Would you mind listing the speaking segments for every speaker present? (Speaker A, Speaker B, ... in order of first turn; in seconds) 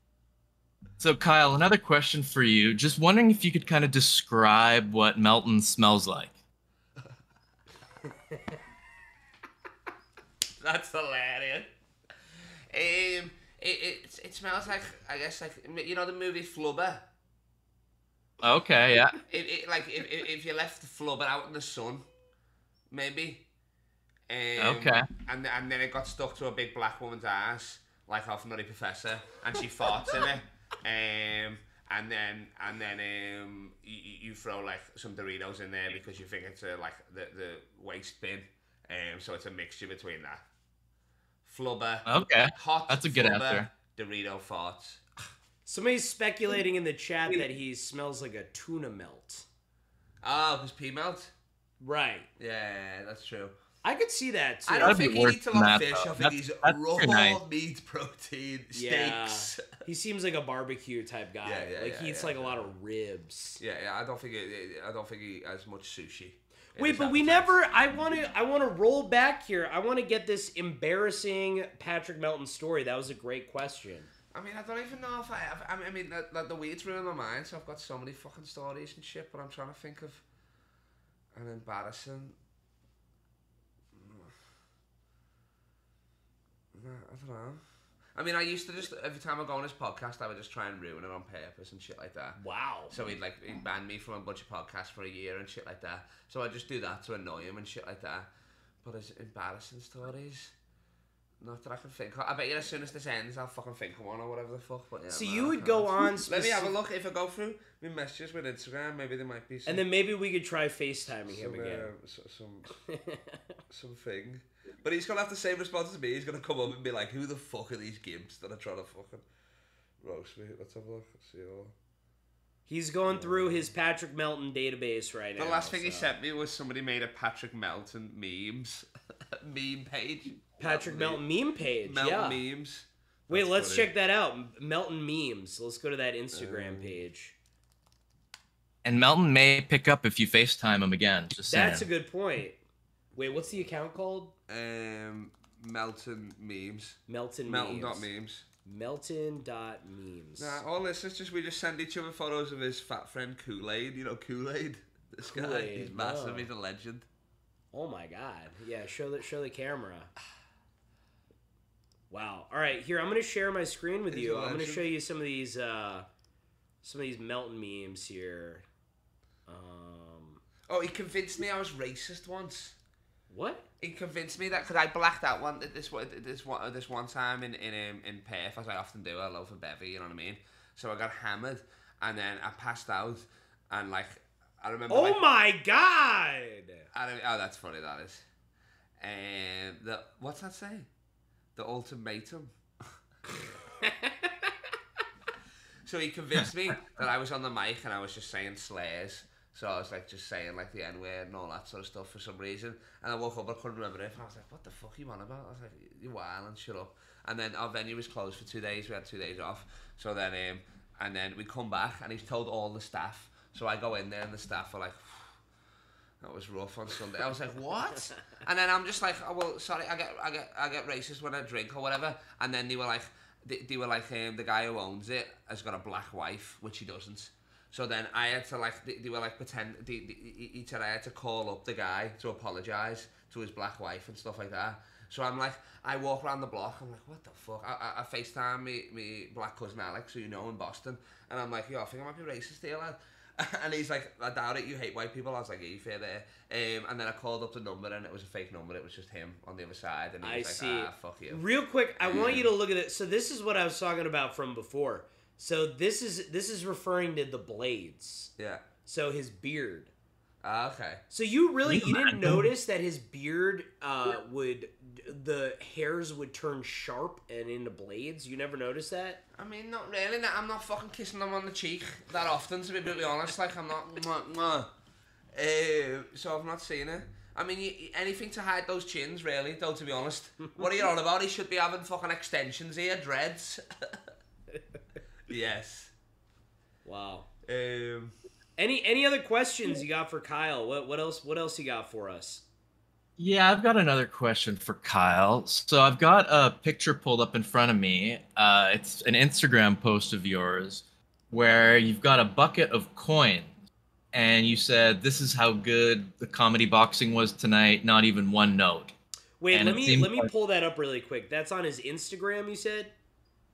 Speaker A: 1.0-6.3, 18.4-19.2, 24.6-25.1, 42.0-43.7, 54.8-57.4, 138.8-141.9, 261.7-262.5, 293.2-303.6, 304.1-308.9, 309.5-310.3
Speaker B: 10.6-11.7, 12.7-17.0, 19.3-22.1, 22.9-23.4, 24.3-40.4, 41.5-45.0, 50.2-51.3, 52.4-53.5, 54.7-59.6, 61.4-62.6, 63.6-67.5, 74.3-80.2, 81.3-82.3, 83.9-84.3, 86.7-87.6, 88.1-92.4, 92.9-98.3, 98.8-100.5, 101.4-109.8, 111.3-112.7, 113.7-119.2, 120.0-121.7, 123.1-123.7, 125.4-128.9, 129.4-131.2, 131.8-133.9, 136.3-137.0, 144.5-148.4, 150.4-157.1, 164.1-164.8, 170.7-172.8, 173.8-185.2, 186.9-188.2, 189.0-190.9, 191.6-192.5, 195.8-215.4, 216.2-251.4, 252.0-252.5, 258.4-258.6, 260.4-261.0, 269.4-274.7, 275.3-283.6, 285.3-285.9, 287.4-288.1
Speaker C: 45.6-49.5, 51.8-52.3, 53.8-55.1, 58.7-63.6, 66.8-74.1, 92.4-92.9, 105.1-106.7, 109.7-111.9, 112.9-113.4, 122.7-126.1, 130.6-132.4, 133.3-137.3, 141.5-142.6, 143.1-144.3, 147.1-148.1, 148.7-150.6, 155.3-156.5, 157.7-160.1, 162.1-166.1, 166.8-168.6, 169.5-170.4, 173.3-173.6, 184.9-186.8, 193.8-194.5, 250.2-258.3, 258.9-259.9, 261.1-269.2, 286.8-287.3, 288.6-292.4, 309.4-312.9